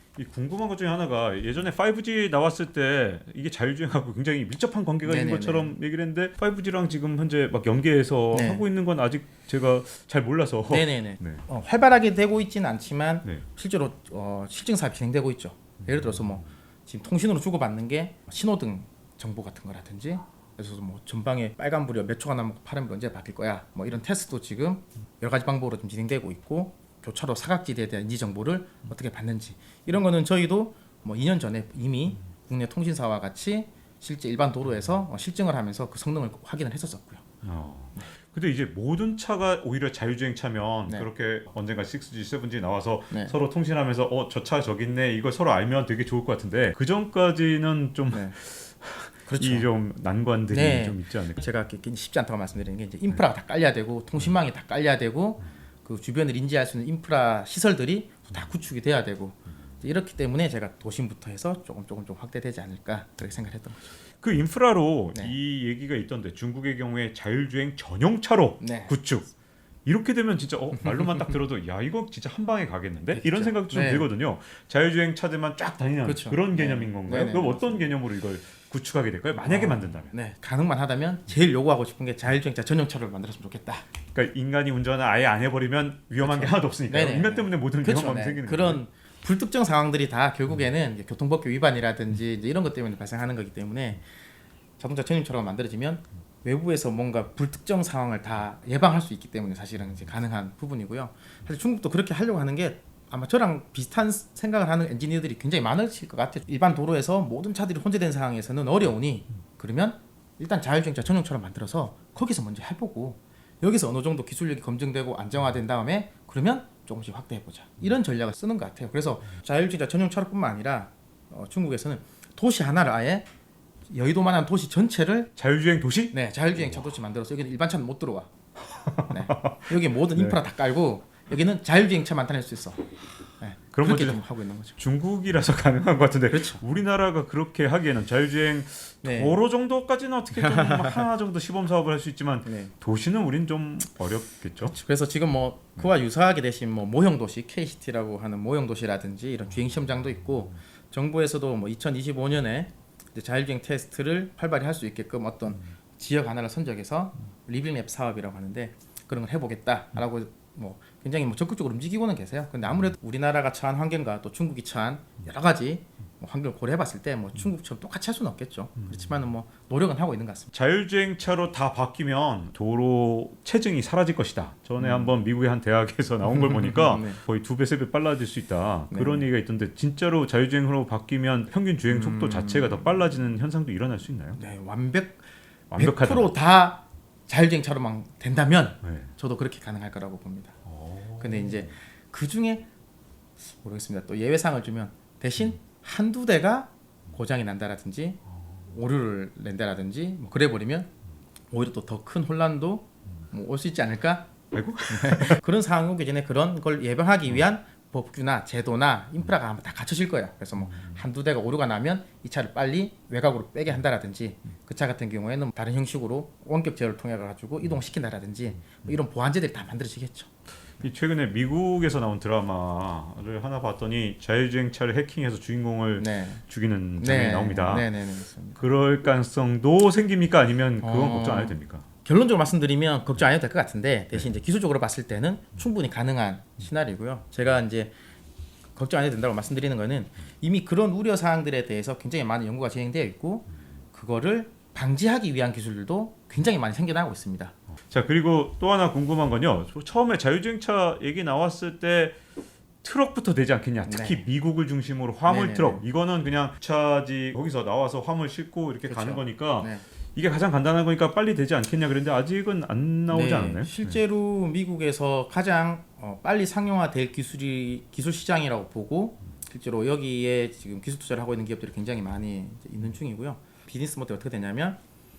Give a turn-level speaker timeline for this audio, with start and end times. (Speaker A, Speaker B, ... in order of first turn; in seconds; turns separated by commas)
Speaker A: 0.1-11.4, Speaker B: 5.0-5.7, Speaker B: 8.3-8.6, Speaker B: 10.7-37.2, Speaker A: 15.8-16.4, Speaker A: 37.4-51.4, Speaker B: 48.1-48.4, Speaker B: 49.3-49.7, Speaker B: 50.5-63.9, Speaker A: 64.2-69.3, Speaker B: 68.6-68.9, Speaker A: 69.8-80.1, Speaker B: 70.8-71.3, Speaker B: 73.1-74.1, Speaker B: 76.0-77.9, Speaker B: 79.4-83.8, Speaker A: 84.1-88.8, Speaker B: 86.2-94.0, Speaker B: 94.8-123.3, Speaker B: 123.9-125.3, Speaker A: 125.3-126.1, Speaker B: 126.1-128.3, Speaker A: 128.6-130.4, Speaker B: 129.1-134.8, Speaker A: 133.7-134.2, Speaker A: 134.8-144.8, Speaker B: 136.3-136.6, Speaker B: 139.0-139.4, Speaker B: 140.3-141.0, Speaker B: 142.4-142.7, Speaker B: 144.6-170.5, Speaker A: 170.5-184.4, Speaker B: 174.8-175.1, Speaker B: 176.3-177.2, Speaker B: 178.9-179.2, Speaker B: 181.9-182.9, Speaker B: 184.3-185.2, Speaker A: 185.7-186.3, Speaker B: 185.8-190.6, Speaker A: 188.8-189.1, Speaker A: 190.7-191.7, Speaker B: 191.2-192.7, Speaker B: 193.4-200.9, Speaker B: 201.5-204.3, Speaker A: 204.5-205.4, Speaker B: 204.9-220.3, Speaker A: 210.7-210.9, Speaker A: 220.8-227.9, Speaker B: 226.0-226.4, Speaker B: 227.0-228.6, Speaker A: 228.6-231.8, Speaker B: 230.8-237.9, Speaker B: 238.8-247.5, Speaker A: 247.9-252.2, Speaker A: 252.8-264.0, Speaker B: 253.8-254.2, Speaker B: 255.3-255.8, Speaker B: 258.9-259.8, Speaker B: 263.1-274.8